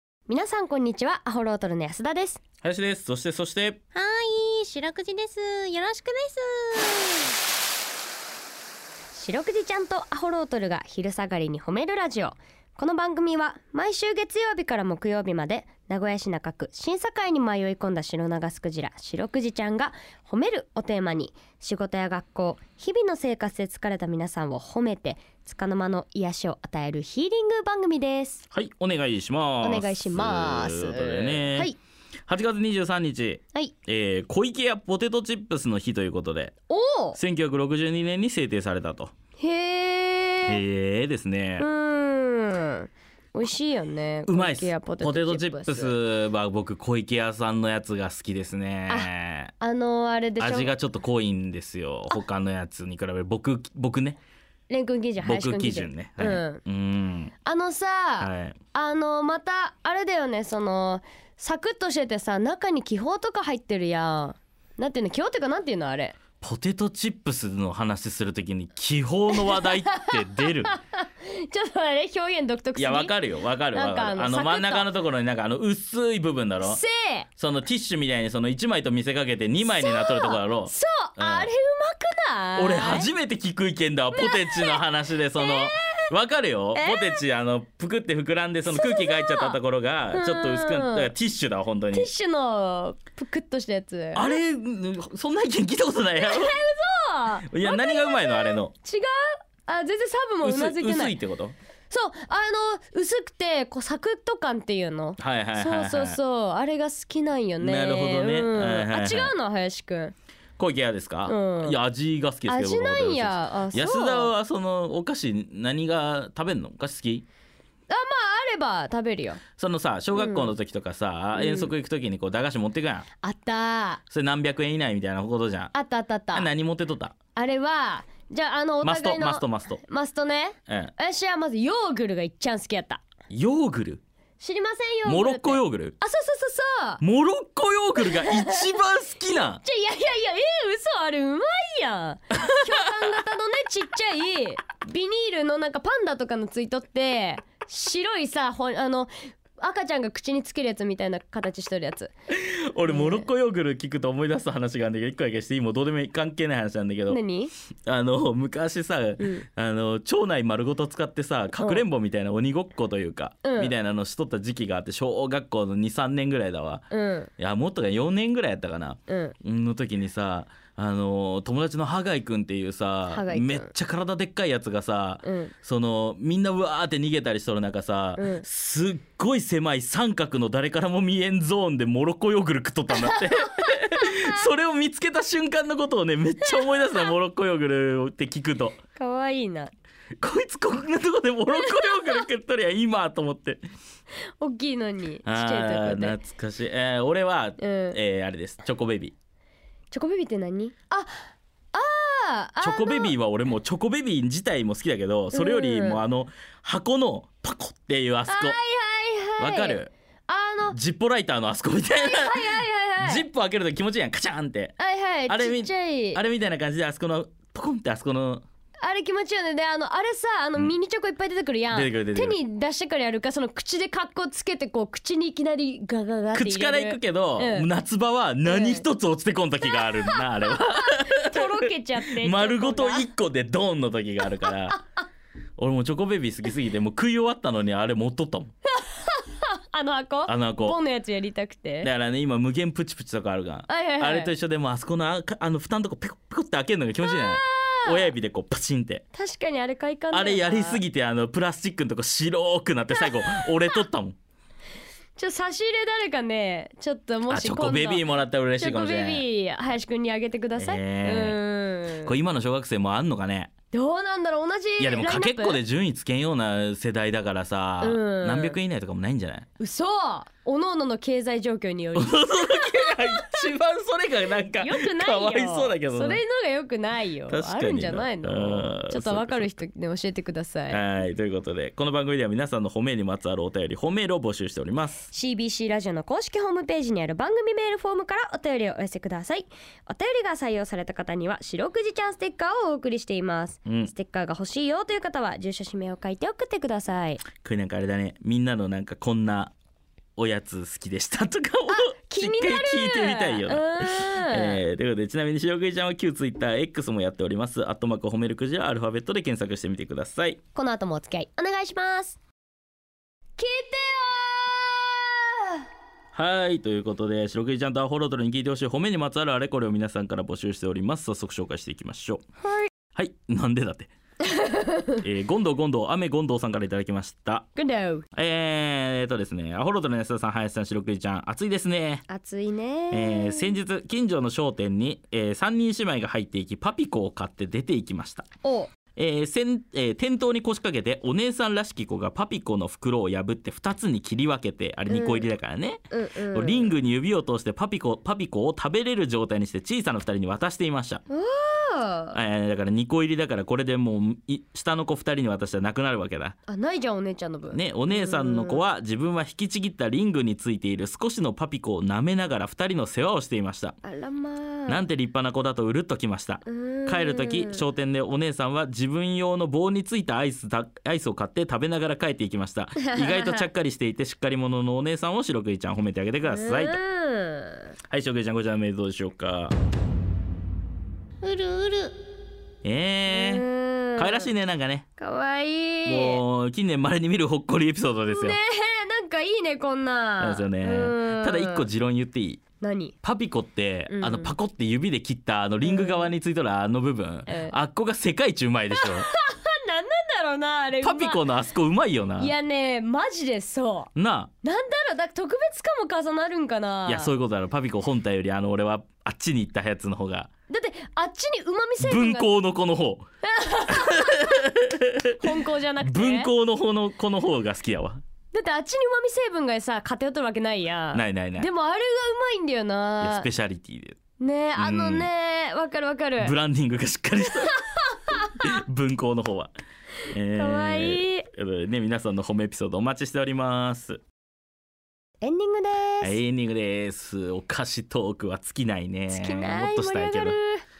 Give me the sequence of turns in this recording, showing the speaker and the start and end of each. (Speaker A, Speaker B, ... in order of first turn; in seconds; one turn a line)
Speaker A: 0.3-2.4
Speaker B: 2.6-3.8
Speaker C: 3.9-7.3
Speaker A: 9.1-28.4
Speaker B: 28.5-31.7
Speaker A: 29.6-31.8
Speaker B: 32.3-36.5
Speaker A: 36.7-37.2
Speaker B: 37.1-39.1
Speaker A: 39.4-40.6
Speaker B: 40.5-41.7
Speaker A: 41.6-46.0
Speaker B: 44.3-49.5
Speaker A: 48.9-50.7
Speaker B: 50.4-54.2
Speaker A: 54.7-56.6
Speaker B: 55.2-57.3
Speaker A: 57.4-66.2
Speaker B: 58.2-58.6
Speaker B: 66.4-70.7
Speaker A: 69.3-73.1
Speaker B: 72.8-76.8
Speaker A: 73.7-74.9
Speaker A: 76.6-77.3
Speaker B: 77.4-81.5
Speaker A: 79.6-83.1
Speaker B: 82.6-92.1
Speaker A: 84.1-84.8
Speaker A: 85.3-86.0
Speaker A: 86.7-87.2
Speaker A: 88.7-89.6
Speaker A: 90.1-91.1
Speaker A: 91.9-94.4
Speaker B: 94.1-96.6
Speaker A: 96.2-101.2
Speaker B: 97.5-98.7
Speaker B: 100.4-101.5
Speaker A: 101.9-110.1
Speaker B: 105.2-106.2
Speaker B: 107.6-109.3
Speaker B: 110.6-117.2
Speaker A: 111.2-111.8
Speaker A: 112.5-114.3
Speaker A: 117.9-119.4
Speaker B: 119.6-123.1
Speaker A: 120.1-120.5
Speaker A: 121.3-121.7
Speaker A: 123.2-124.0
Speaker B: 124.1-125.7
Speaker A: 125.7-126.5
Speaker B: 126.3-127.1
Speaker A: 127.3-133.0
Speaker B: 128.8-129.8
Speaker B: 130.7-130.9
Speaker B: 133.3-134.0
Speaker A: 134.4-137.0
Speaker B: 135.0-135.9
Speaker B: 137.0-139.6
Speaker A: 138.0-138.7
Speaker A: 139.3-152.1
Speaker B: 152.3-157.2
Speaker A: 152.9-153.3
Speaker A: 157.1-157.5
Speaker B: 157.8-166.8
Speaker A: 159.2-159.4
Speaker A: 161.6-161.8
Speaker A: 163.4-163.7
Speaker A: 166.9-167.3
Speaker B: 167.4-188.8
Speaker A: 169.1-169.3
Speaker A: 173.1-173.7
Speaker A: 175.2-175.5
Speaker A: 178.2-178.4
Speaker A: 182.9-184.3
Speaker A: 186.4-187.1
Speaker A: 188.9-189.7
Speaker B: 190.2-193.6
Speaker A: 191.5-192.1
Speaker A: 194.4-196.2
Speaker B: 195.2-199.1
Speaker A: 197.6-198.0
Speaker A: 199.9-203.1
Speaker B: 202.6-208.6
Speaker A: 205.3-206.0
Speaker A: 208.3-210.8
Speaker B: 209.4-209.9
Speaker B: 210.7-214.8
Speaker A: 211.9-213.2
Speaker A: 214.8-216.2
Speaker B: 215.3-218.4
Speaker A: 218.8-227.7
Speaker B: 221.7-222.4
Speaker B: 226.3-234.8
Speaker A: 228.4-228.8
Speaker A: 229.7-233.1
Speaker A: 234.2-234.8
Speaker B: 235.6-238.5
Speaker A: 238.7-241.9
Speaker B: 240.3-240.8
Speaker B: 241.8-249.0
Speaker A: 243.7-244.3
Speaker A: 247.0-248.1
Speaker A: 249.1-250.8
Speaker B: 250.1-254.2
Speaker A: 252.9-253.8
Speaker A: 255.2-262.1
Speaker B: 257.3-259.2
Speaker B: 260.6-261.4
Speaker B: 262.0-263.5
Speaker A: 263.7-265.6
Speaker B: 264.8-269.5
Speaker A: 267.8-268.6
Speaker A: 269.6-273.5
Speaker B: 271.9-276.2
Speaker A: 274.5-280.8
Speaker B: 277.3-279.5
Speaker B: 280.7-285.1
Speaker A: 285.1-297.2
Speaker B: 293.6-293.9
Speaker B: 297.4-299.5
Speaker B: 300.1-310.4
Speaker A: 301.7-304.6
Speaker A: 310.5-312.2
Speaker A: 313.4-315.6
Speaker B: 316.1-322.2
Speaker A: 322.4-322.7
Speaker B: 322.9-323.9
Speaker A: 324.2-325.0
Speaker B: 325.0-327.5
Speaker A: 327.6-328.0
Speaker B: 328.1-332.0
Speaker A: 332.1-333.6
Speaker B: 332.9-338.3
Speaker A: 338.4-338.7
Speaker B: 338.9-351.0
Speaker A: 344.9-345.3
Speaker A: 345.9-346.7
Speaker A: 351.1-352.2
Speaker B: 352.1-356.4
Speaker A: 356.5-358.6
Speaker B: 357.5-363.8
Speaker A: 363.8-364.9
Speaker B: 364.7-376.8
Speaker A: 366.4-367.6
Speaker A: 372.8-373.4
Speaker A: 376.2-377.7
Speaker B: 377.9-379.5
Speaker A: 381.2-381.5
Speaker C: 381.3-381.9
Speaker B: 382.6-384.9
Speaker A: 383.1-384.3
Speaker A: 385.0-386.2
Speaker B: 385.8-388.4
Speaker A: 388.1-391.7
Speaker B: 390.2-392.4
Speaker A: 392.6-392.9
Speaker B: 393.0-399.1
Speaker A: 393.9-394.3
Speaker A: 395.6-396.1
Speaker A: 397.3-397.5
Speaker A: 398.7-401.2
Speaker B: 400.8-402.3
Speaker A: 402.2-403.9
Speaker B: 403.9-404.3
Speaker A: 404.4-407.1
Speaker B: 406.9-410.3
Speaker A: 410.5-412.3
Speaker B: 411.8-413.0
Speaker A: 413.2-414.5
Speaker B: 413.7-415.2
Speaker A: 415.2-416.3
Speaker B: 415.8-418.0
Speaker A: 418.3-423.3
Speaker B: 420.9-421.5
Speaker B: 423.0-424.0
Speaker A: 424.2-426.4
Speaker B: 424.6-425.1
Speaker B: 426.2-427.6
Speaker A: 427.4-428.4
Speaker B: 428.4-429.5
Speaker B: 430.1-434.0
Speaker A: 430.3-431.3
Speaker A: 435.2-436.2
Speaker B: 436.0-440.4
Speaker A: 439.1-440.6